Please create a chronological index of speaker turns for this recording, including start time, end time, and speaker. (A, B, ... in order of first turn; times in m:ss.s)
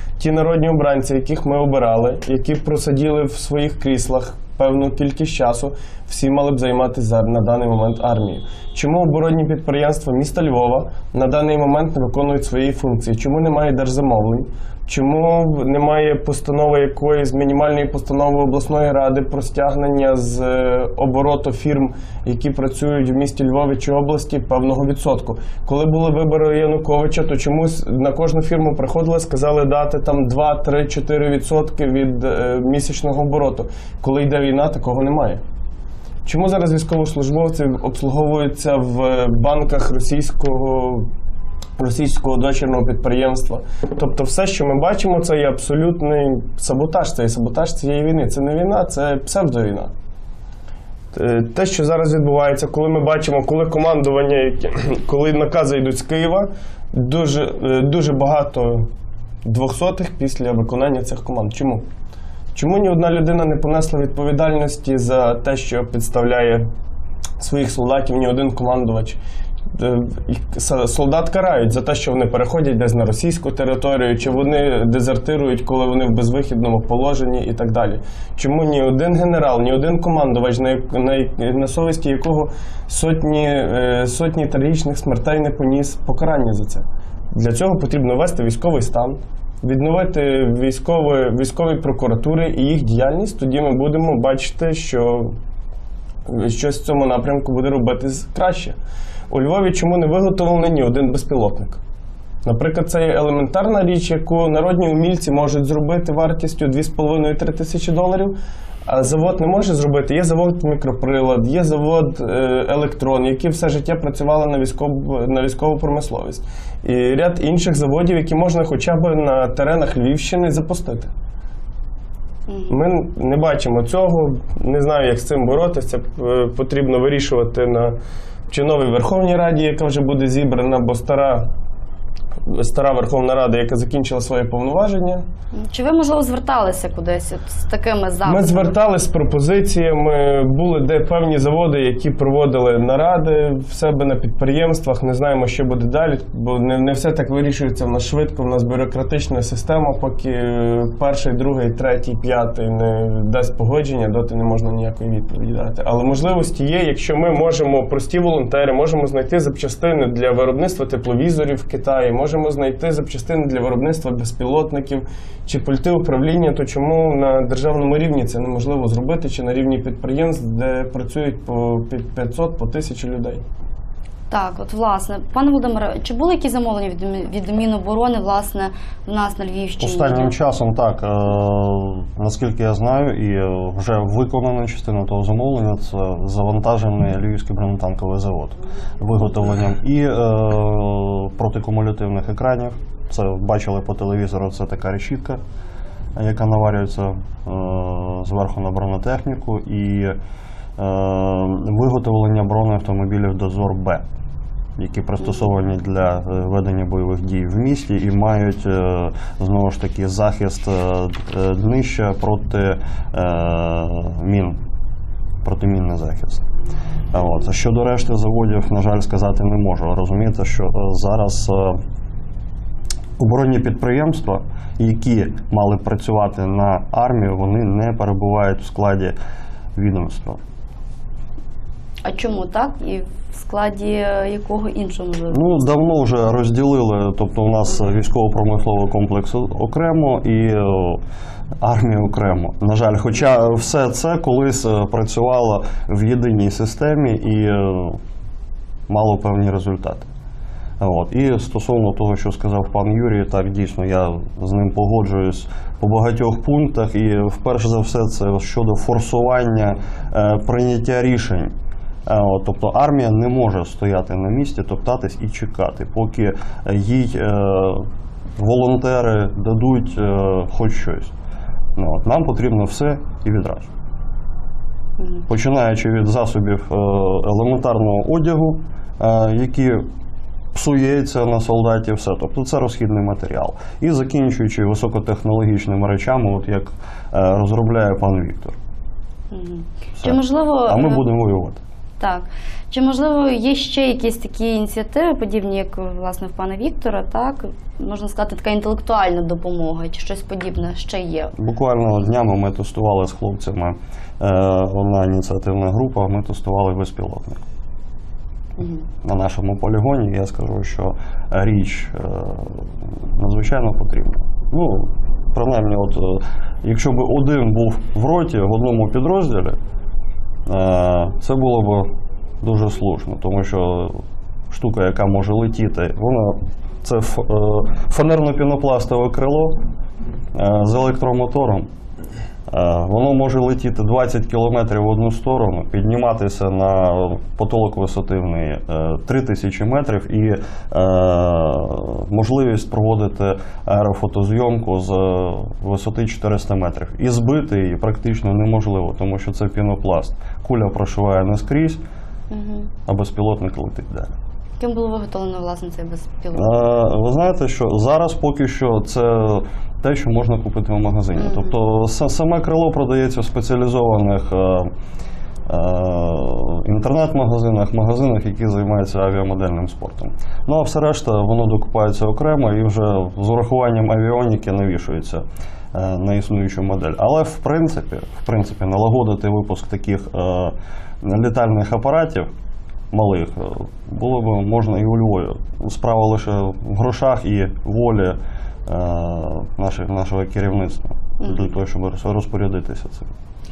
0:00.2-0:35.4 A
0:36.2-0:41.1 A
0:41.8-0:49.9 A
0:51.1-0:58.9 A
0:59.4-1:01.8 A
1:02.5-1:06.7 A
1:07.4-1:09.2 A
1:09.7-1:35.4 A
1:36.3-1:38.8 A
1:39.3-1:41.8 A
1:42.4-2:01.1 A
2:02.5-2:02.8 B
2:02.7-2:08.0 A
2:08.5-2:11.5 A
2:12.4-2:15.2 A
2:15.5-2:18.7 B
2:18.2-2:53.4 A
2:54.3-3:00.3 B
2:59.8-3:15.4 C
3:16.2-3:20.2 C
3:20.8-3:24.0 C
3:24.8-3:34.6 C
3:35.4-3:36.5 C
3:37.1-3:41.8 C
3:43.2-3:49.2 C
3:49.8-3:50.4 C
3:52.0-3:55.4 B
3:55.3-4:01.0 C
4:01.6-4:08.0 C
4:08.9-4:10.1 C
4:10.8-4:21.5 C
4:22.1-4:31.1 C
4:31.8-4:33.7 C
4:35.0-4:35.3 B
4:35.3-4:39.9 C
4:40.5-4:48.6 C
4:49.3-4:51.0 B
4:50.0-4:51.6 C
4:52.0-5:01.3 B
5:01.4-5:07.4 C
5:08.6-5:08.9 B
5:09.0-5:19.6 C
5:20.5-5:21.9 C
5:22.4-5:29.6 C
5:30.3-5:31.7 C
5:32.5-5:51.8 C
5:52.3-5:52.7 B
5:52.9-5:54.2 C
5:54.6-5:56.7 B
5:56.3-6:04.7 C
6:01.2-6:01.6 B
6:05.5-6:22.3 C
6:22.9-6:33.1 C
6:31.2-6:31.5 B